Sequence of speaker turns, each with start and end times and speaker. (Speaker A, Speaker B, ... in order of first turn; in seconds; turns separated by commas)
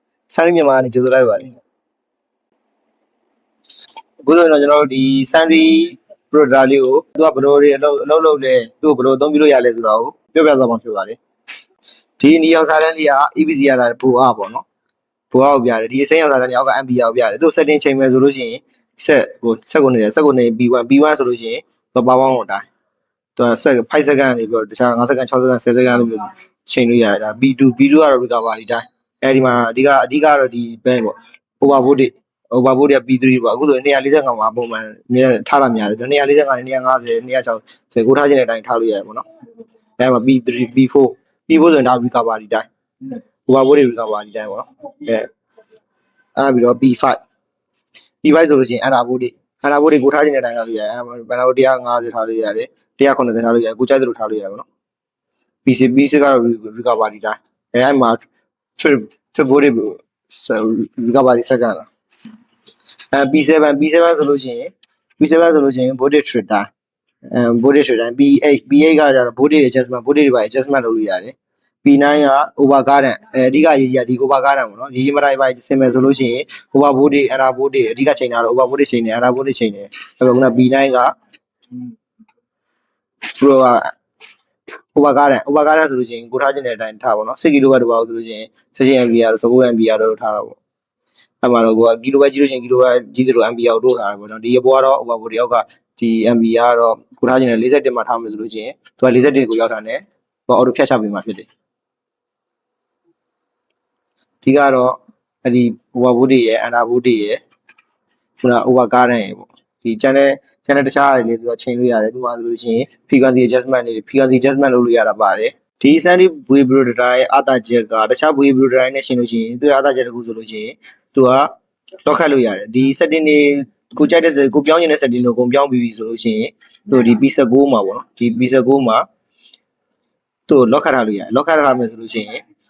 Speaker A: 0.3-1.6, Speaker A: 4.2-11.2, Speaker A: 12.2-14.7, Speaker A: 15.3-22.7, Speaker A: 23.4-39.2, Speaker A: 40.0-42.7, Speaker A: 43.5-45.3, Speaker A: 46.4-47.2, Speaker A: 48.2-54.6, Speaker A: 55.6-58.2, Speaker A: 58.8-61.9, Speaker A: 63.1-66.7, Speaker A: 67.3-81.1, Speaker A: 83.4-83.9, Speaker A: 85.0-90.6, Speaker A: 91.4-101.5, Speaker A: 104.4-107.4, Speaker A: 108.4-121.5, Speaker A: 122.0-129.1, Speaker A: 130.5-132.4